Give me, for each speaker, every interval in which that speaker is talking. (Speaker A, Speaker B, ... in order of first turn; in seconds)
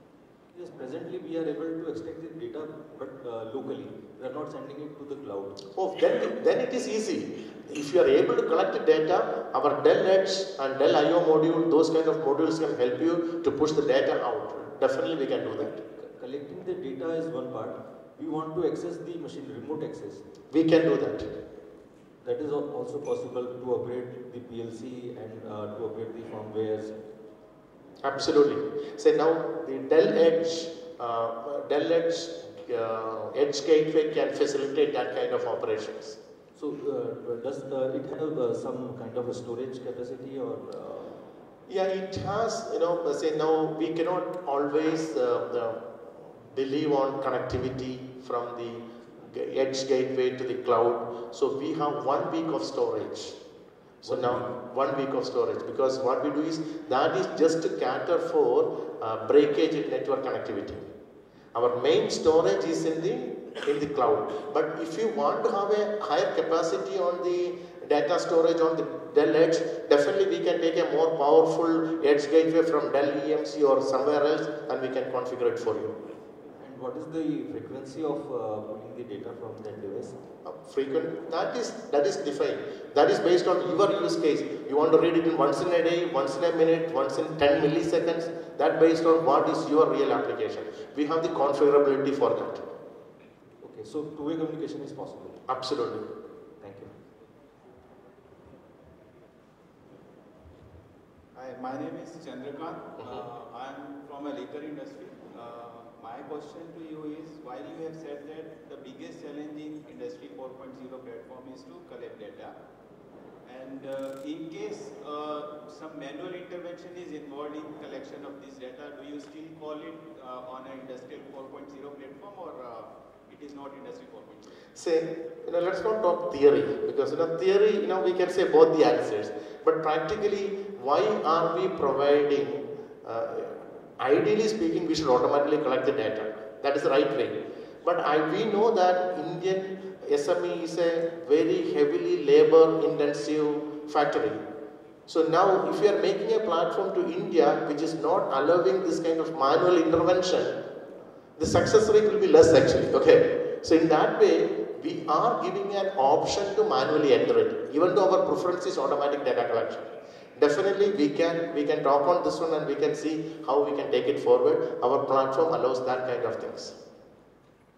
Speaker A: 0.5-5.6, 16.0-20.2, 22.2-26.9, 36.5-41.2, 54.1-54.5, 76.6-80.2, 93.6-95.4, 96.6-96.9
Speaker B: 5.8-15.8, 20.5-21.3, 28.0-36.2, 41.7-53.4, 54.0-60.9, 61.5-76.0, 80.5-92.6, 95.5-96.1, 124.8-144.4, 145.1-150.6, 151.4-166.8
Speaker C: 101.3-112.5, 113.5-124.5